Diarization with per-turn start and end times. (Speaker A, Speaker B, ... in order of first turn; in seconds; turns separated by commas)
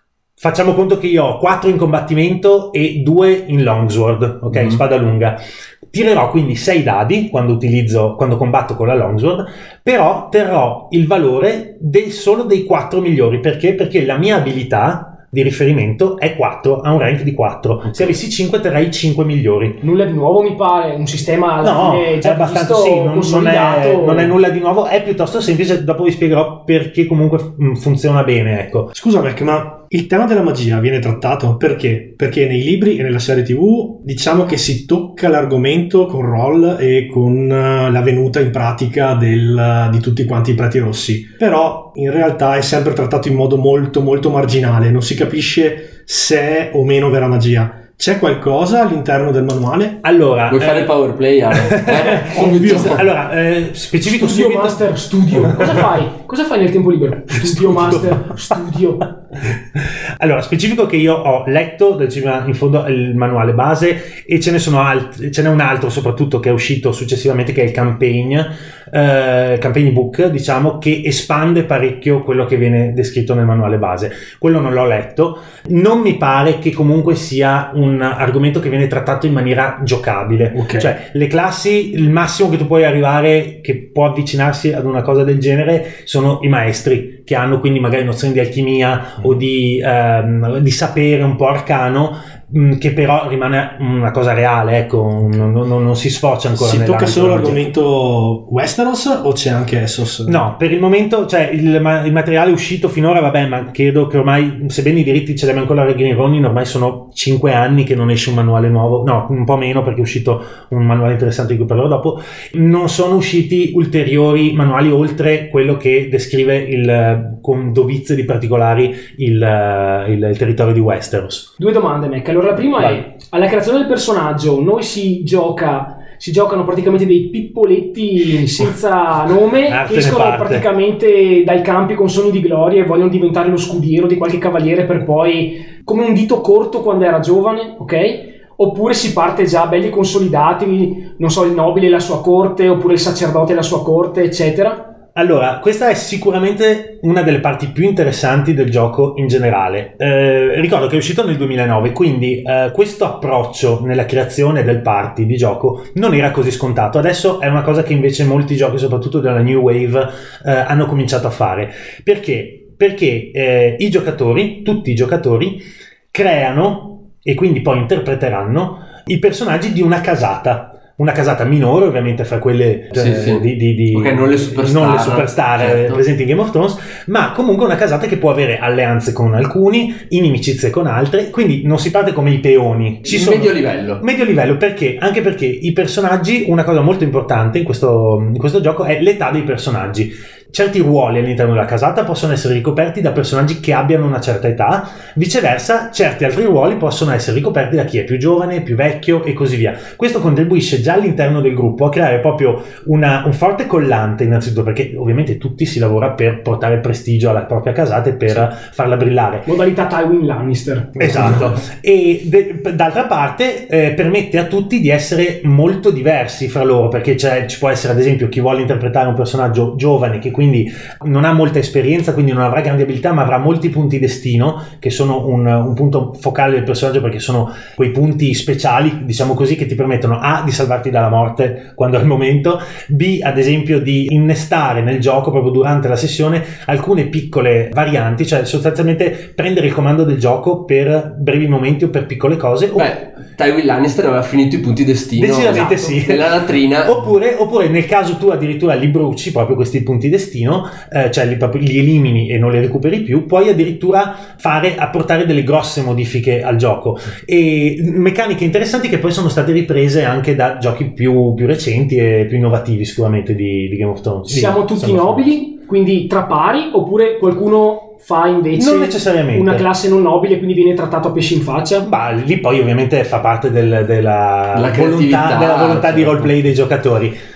Speaker A: 0.4-5.4, Speaker B: 4.5-4.8, Speaker A: 5.9-19.8, Speaker C: 19.8-24.4, Speaker A: 21.6-28.9, Speaker D: 28.9-50.0, Speaker A: 50.0-50.9, Speaker B: 50.5-53.1, Speaker A: 51.5-54.9, Speaker D: 52.2-53.0, Speaker C: 54.0-59.1, Speaker A: 55.4-55.8, Speaker A: 57.4-58.1, Speaker A: 59.8-97.6, Speaker D: 80.5-80.9, Speaker D: 96.6-100.4, Speaker A: 100.3-121.5, Speaker C: 121.6-144.9, Speaker A: 129.7-130.7, Speaker A: 145.2-209.5, Speaker B: 172.9-176.0, Speaker B: 183.1-184.0, Speaker C: 209.4-211.6, Speaker A: 211.0-242.9, Speaker B: 242.8-247.0, Speaker A: 245.2-246.3, Speaker C: 245.5-245.9, Speaker A: 246.8-265.3, Speaker C: 264.3-271.9, Speaker A: 268.6-269.6, Speaker A: 271.8-277.1, Speaker B: 274.5-276.4